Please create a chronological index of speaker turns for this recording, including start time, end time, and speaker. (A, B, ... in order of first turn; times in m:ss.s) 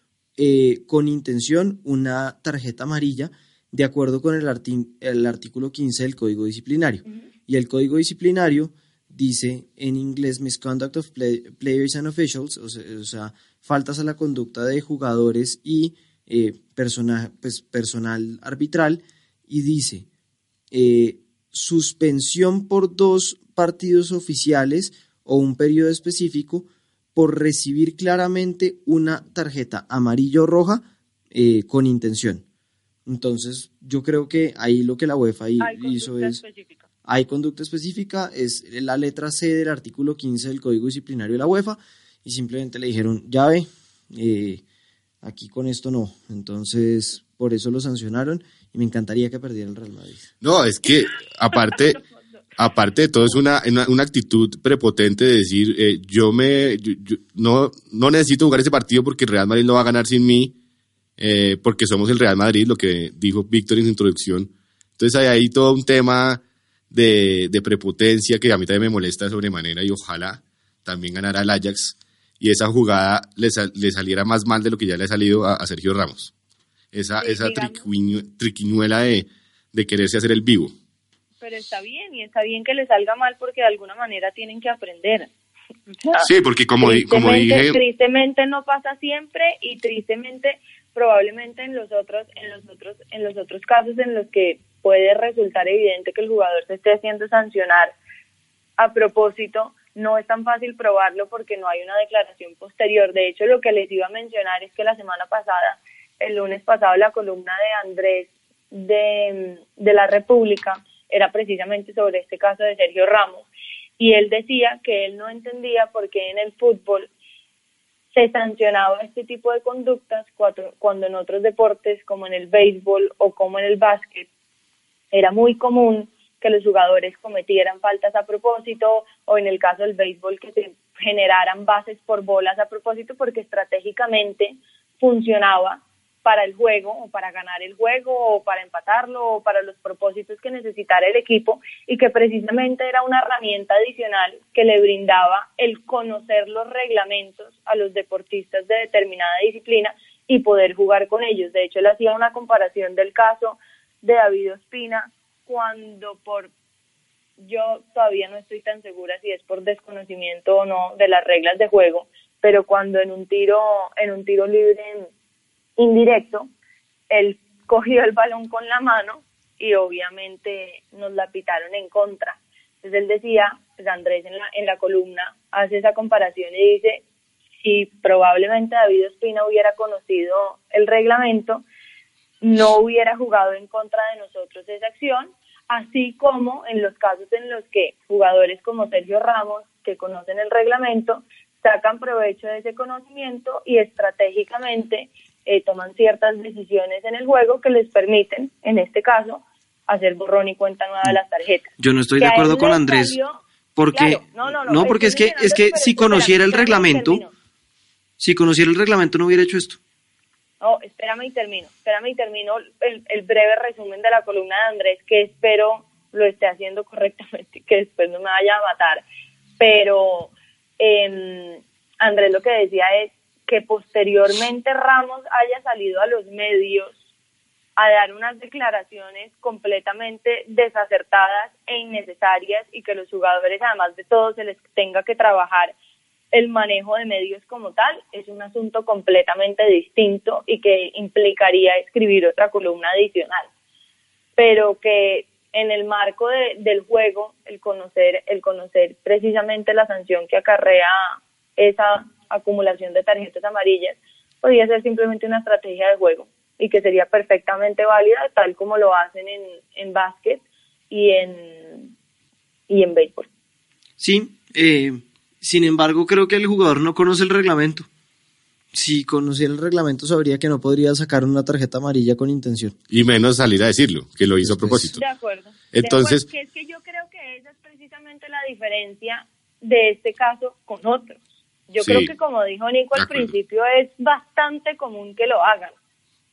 0:00.4-0:20.1 A
0:20.7-0:32.4 A
0:33.1-0:36.4 A
0:35.6-0:36.9 B
0:37.0-0:44.6 A
0:45.2-0:50.3 A
0:50.4-0:52.0 C
0:52.6-1:00.6 C
1:01.2-1:16.3 C
1:16.9-1:20.7 C
1:17.2-1:17.8 B
1:21.4-1:25.3 B
1:26.0-1:26.3 B
1:26.2-1:27.8 C
1:26.8-1:38.0 B
1:38.8-1:53.5 B
1:54.0-1:57.1 B
1:58.1-2:04.3 B
2:05.1-2:36.5 B
2:37.4-2:45.1 B
2:45.8-2:46.5 B
2:47.1-2:57.0 B
2:57.6-3:01.6 B
3:02.4-3:23.4 B
3:21.8-3:23.2 A
3:23.8-3:27.2 A
3:23.9-3:27.3 B
3:28.2-3:29.8 A
3:30.6-3:39.0 B
3:39.6-3:47.0 B
3:47.8-3:55.8 B
3:56.3-4:03.5 B
4:04.4-4:21.9 B
4:22.7-4:23.3 B
4:24.0-4:27.9 A
4:28.7-4:32.8 A
4:32.9-4:35.0 C
4:34.4-4:34.9 A
4:34.9-4:45.8 B
4:35.7-4:36.2 C
4:41.8-4:42.1 C
4:42.9-4:43.3 C